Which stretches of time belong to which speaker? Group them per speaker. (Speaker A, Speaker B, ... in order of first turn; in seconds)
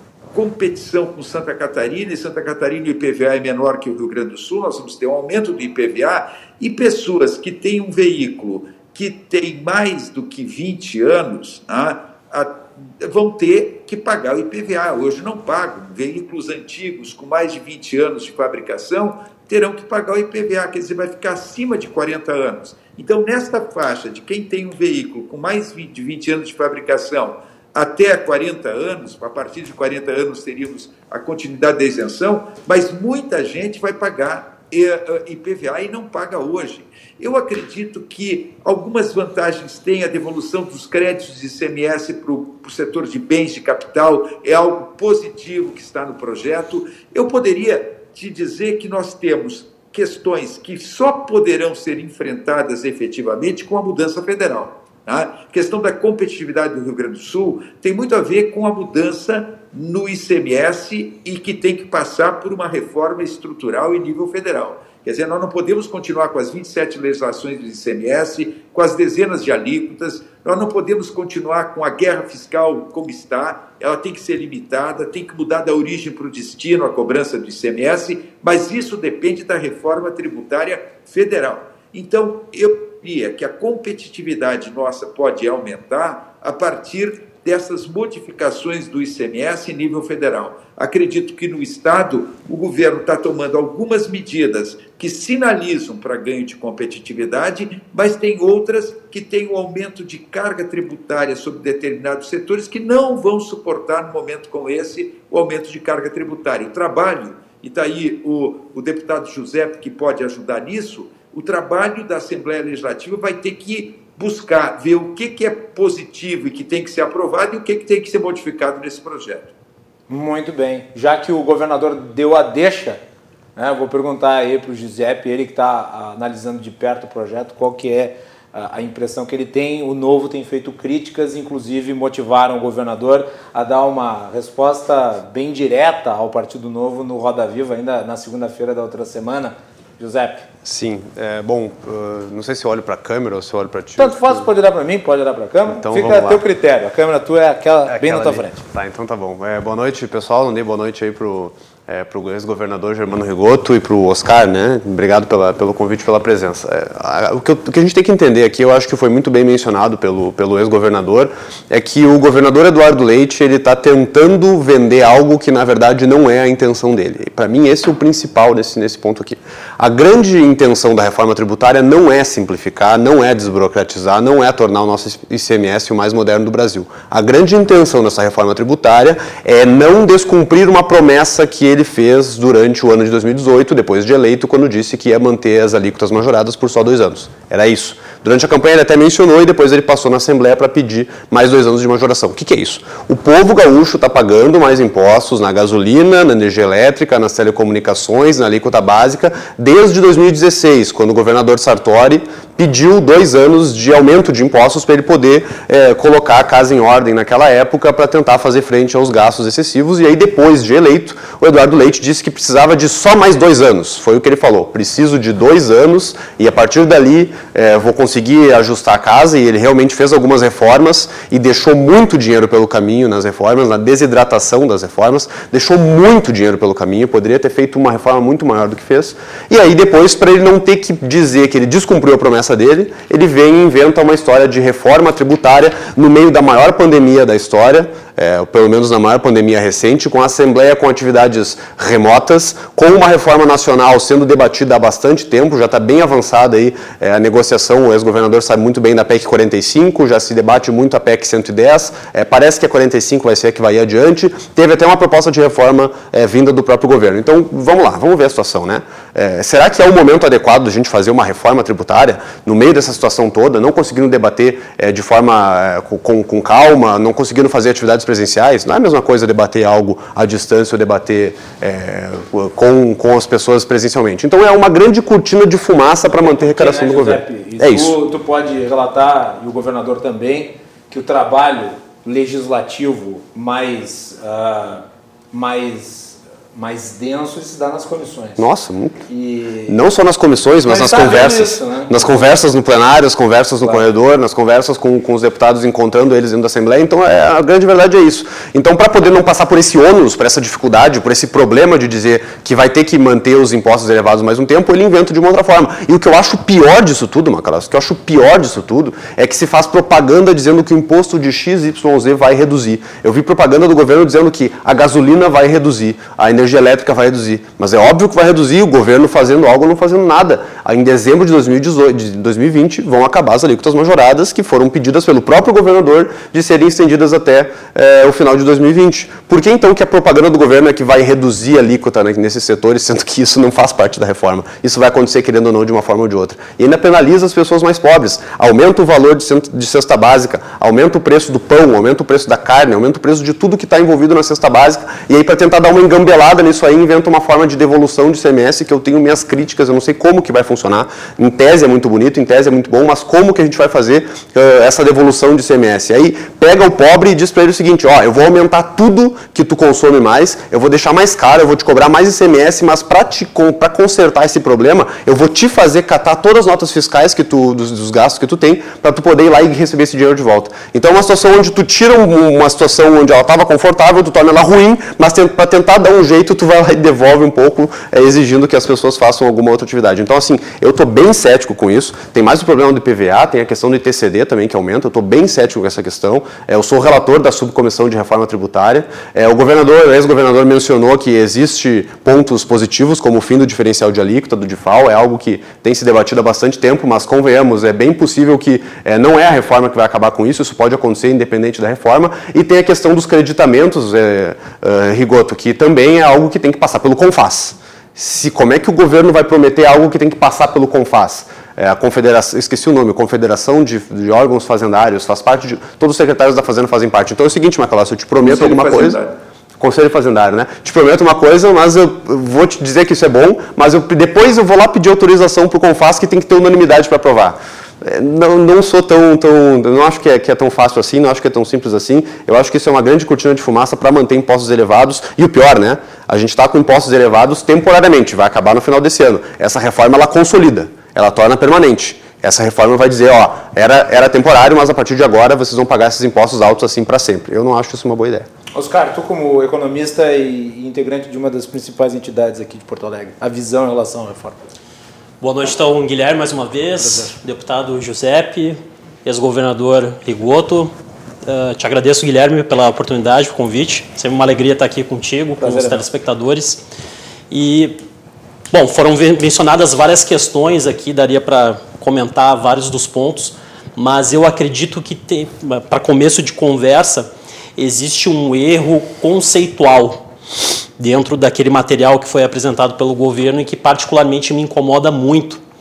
Speaker A: 0.3-119.5, 418.2-419.1
Speaker B: 120.1-123.0, 123.6-140.5, 144.0-148.7, 276.2-288.4, 289.1-289.8, 290.6-292.3, 448.5-454.6, 456.8-457.1, 465.4-465.9
Speaker C: 140.6-144.5, 145.8-146.4, 147.9-278.0, 288.4-289.0, 289.7-419.0, 419.6-448.3
Speaker D: 455.2-460.7, 461.3-466.6, 467.3-467.8, 468.5-480.1, 480.8-485.4